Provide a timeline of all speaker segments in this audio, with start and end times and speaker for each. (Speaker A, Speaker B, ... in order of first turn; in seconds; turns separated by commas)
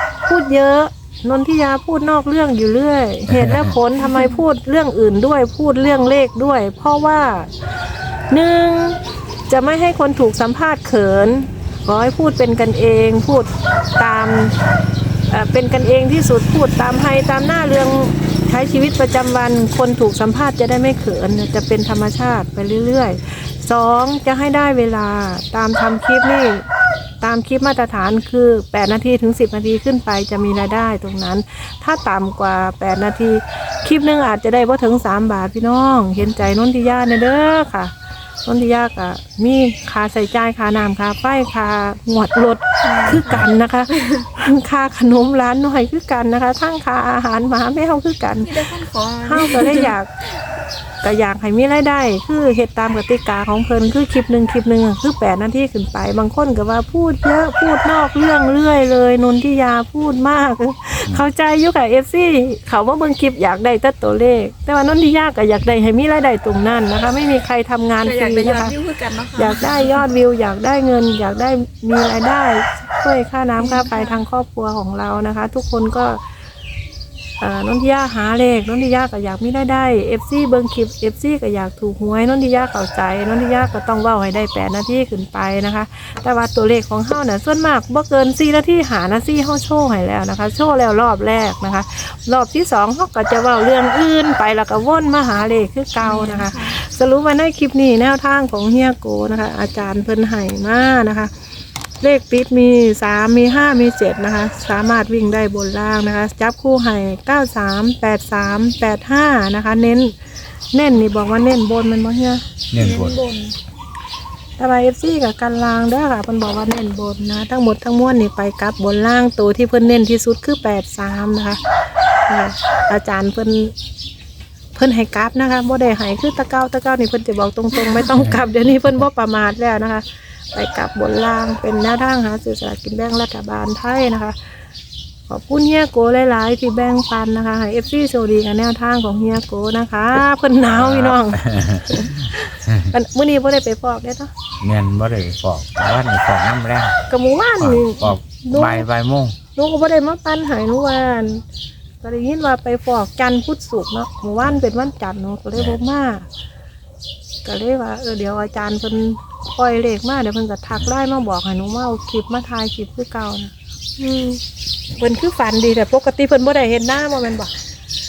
Speaker A: 0.2-7.5, Speaker B: 3.3-3.8, Speaker C: 4.0-4.4, Speaker A: 8.3-14.6, Speaker A: 15.3-26.7, Speaker A: 27.2-37.9, Speaker A: 38.4-48.7, Speaker B: 43.1-43.5, Speaker C: 48.4-50.0, Speaker A: 49.2-50.1, Speaker A: 51.0-68.8, Speaker C: 68.0-70.0, Speaker A: 69.4-76.2, Speaker C: 73.6-74.2, Speaker A: 77.4-101.3, Speaker C: 96.0-96.8, Speaker A: 102.0-110.1, Speaker A: 110.7-112.4, Speaker B: 112.7-113.2, Speaker C: 112.8-113.5, Speaker A: 114.6-121.6, Speaker A: 122.3-123.7, Speaker A: 124.8-134.4, Speaker A: 135.3-144.3, Speaker B: 140.7-142.9, Speaker B: 144.6-147.0, Speaker A: 147.1-148.9, Speaker B: 147.6-149.4, Speaker A: 149.6-151.4, Speaker A: 152.0-156.3, Speaker A: 157.4-164.4, Speaker A: 164.9-167.5